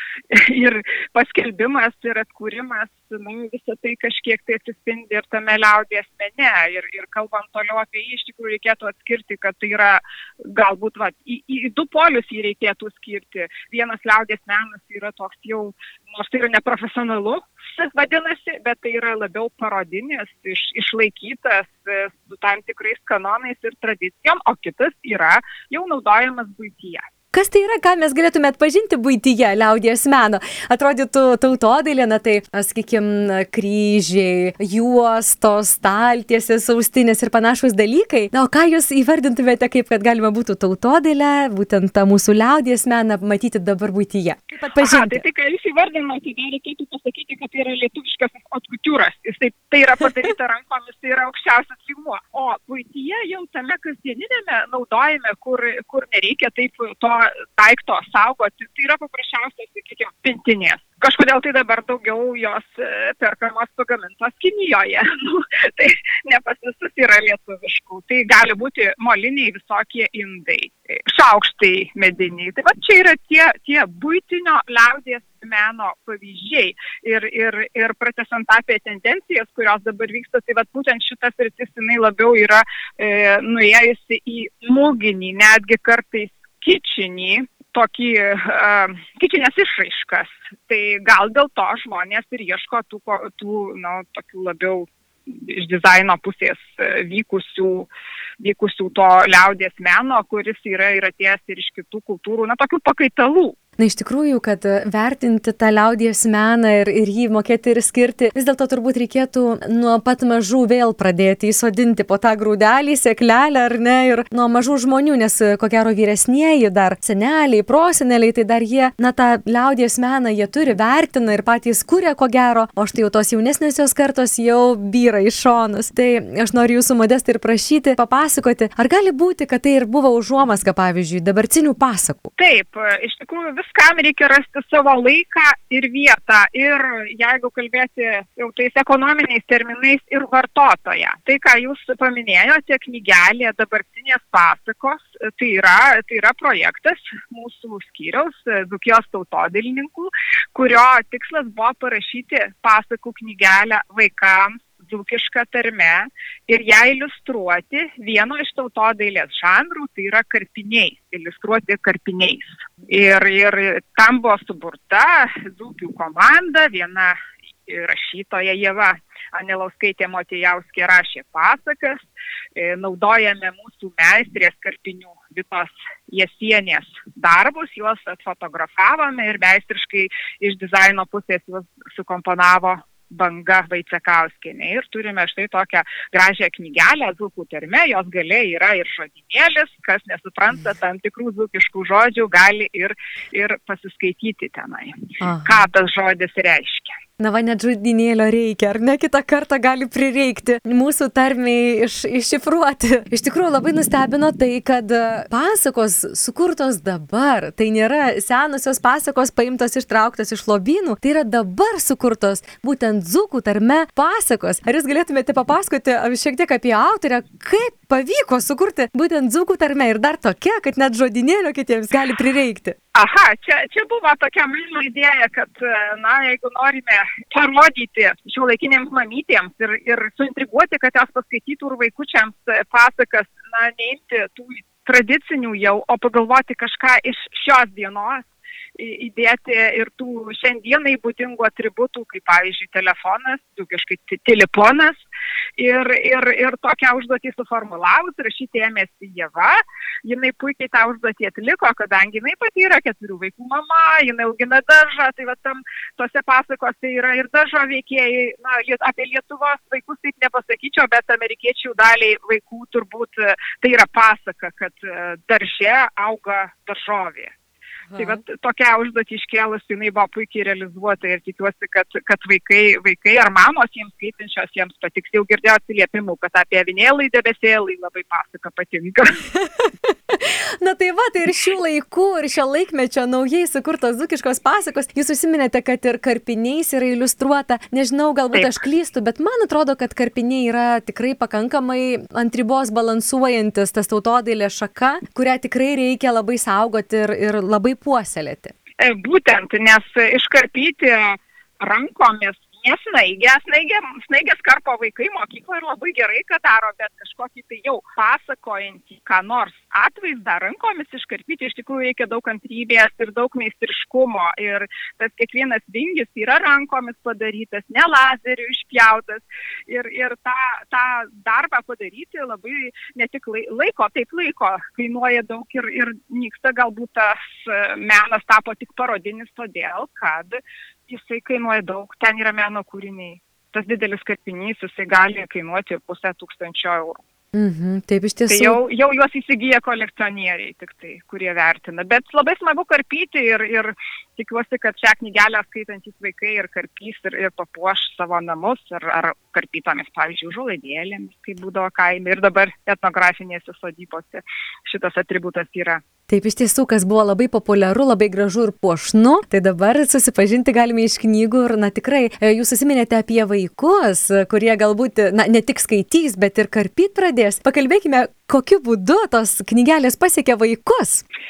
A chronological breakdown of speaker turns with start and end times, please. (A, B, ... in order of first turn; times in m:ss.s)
0:00.3-0:27.0 A
0:27.3-0:45.2 B
0:44.8-1:43.6 A
1:43.8-2:12.3 B
2:12.4-2:52.0 A
2:52.6-3:17.0 A
3:15.2-3:15.7 B
3:17.2-3:42.8 B
3:42.9-4:05.0 A
4:05.6-4:27.3 A
4:27.9-4:28.2 B
4:28.0-4:39.1 A
4:39.3-4:58.5 B
4:48.3-4:48.6 A
4:58.8-5:30.4 A
5:30.9-5:37.0 A
5:37.3-5:38.6 B
5:38.3-5:55.8 A
5:56.1-6:11.0 B